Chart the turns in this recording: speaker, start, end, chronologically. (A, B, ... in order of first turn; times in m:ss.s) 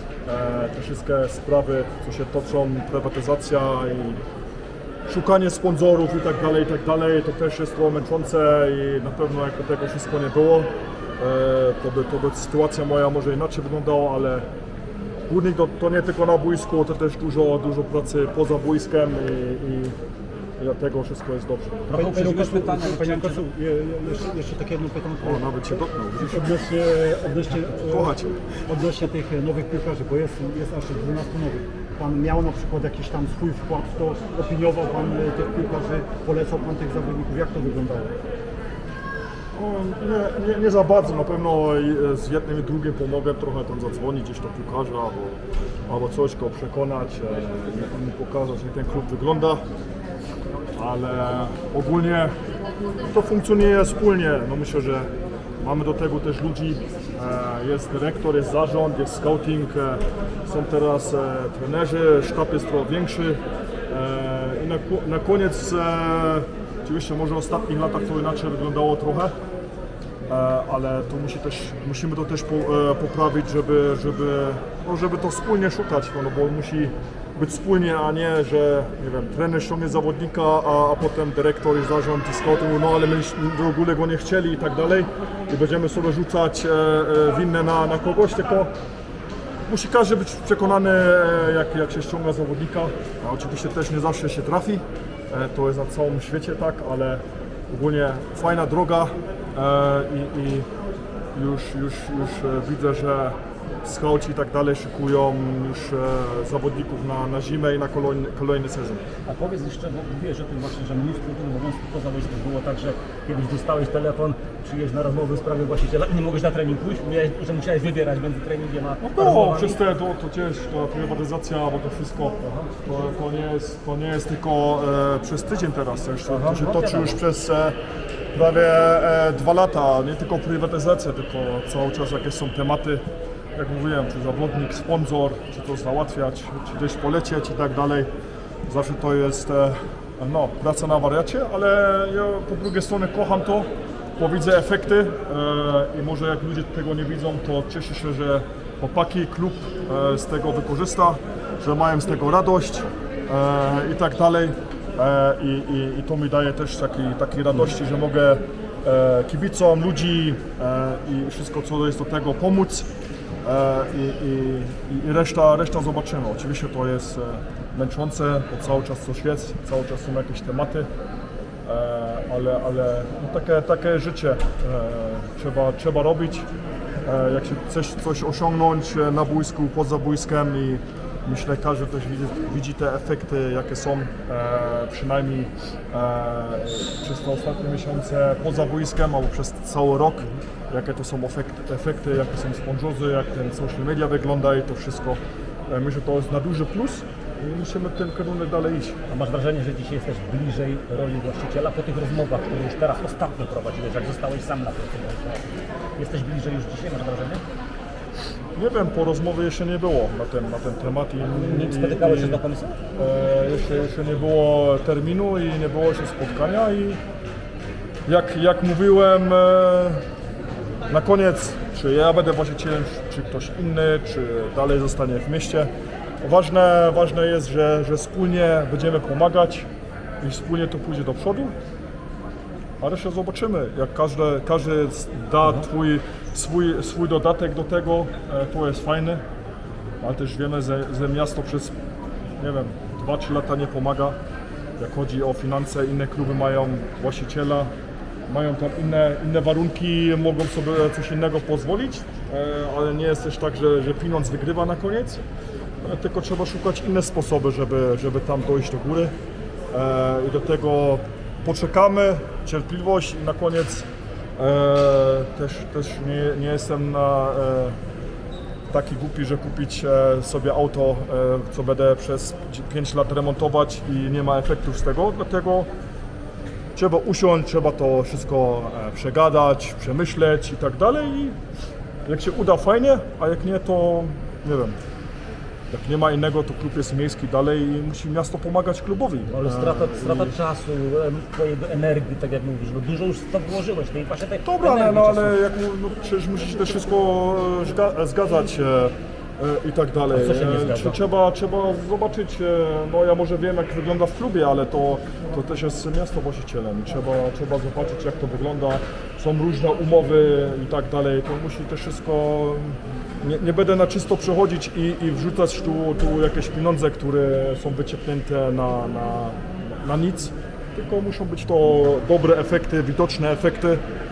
0:00.2-0:04.2 A
0:05.1-0:14.5 A
0:15.3-0:20.0 A
0:20.6-0:21.8 A
0:21.9-0:23.4 B
0:21.9-0:25.4 C
0:25.2-0:26.5 A
0:26.2-0:28.1 C
0:27.8-0:28.4 A
0:28.7-0:38.1 C
0:39.6-0:49.6 A
0:50.8-0:52.4 A
0:53.1-1:09.3 A
1:10.3-1:28.7 A
1:29.7-1:40.7 A
1:41.3-1:49.0 A
1:49.3-1:59.8 B
1:59.0-2:07.8 A
2:06.3-2:07.2 B
2:08.3-2:13.0 A
2:13.6-2:18.1 A
2:18.7-2:42.9 A
2:43.4-2:50.9 A
2:51.7-2:56.5 A
2:57.0-3:19.0 A
3:19.1-3:27.4 B
3:28.6-3:32.4 A
3:31.3-3:32.8 B
3:33.0-3:37.0 A
3:38.1-3:40.0 A
3:40.9-3:49.7 A
3:50.2-3:51.5 A
3:52.8-3:59.2 A
4:00.0-4:01.7 A
4:02.4-4:04.2 A
4:04.8-4:07.7 A
4:08.3-4:15.2 A
4:15.8-4:19.1 A
4:19.7-4:23.9 A
4:24.4-4:27.8 A
4:28.7-4:35.7 A
4:36.8-4:41.4 A
4:42.1-4:44.8 A
4:45.7-4:50.4 A
4:49.3-4:55.4 B
4:54.4-5:23.8 A
5:00.1-5:01.0 B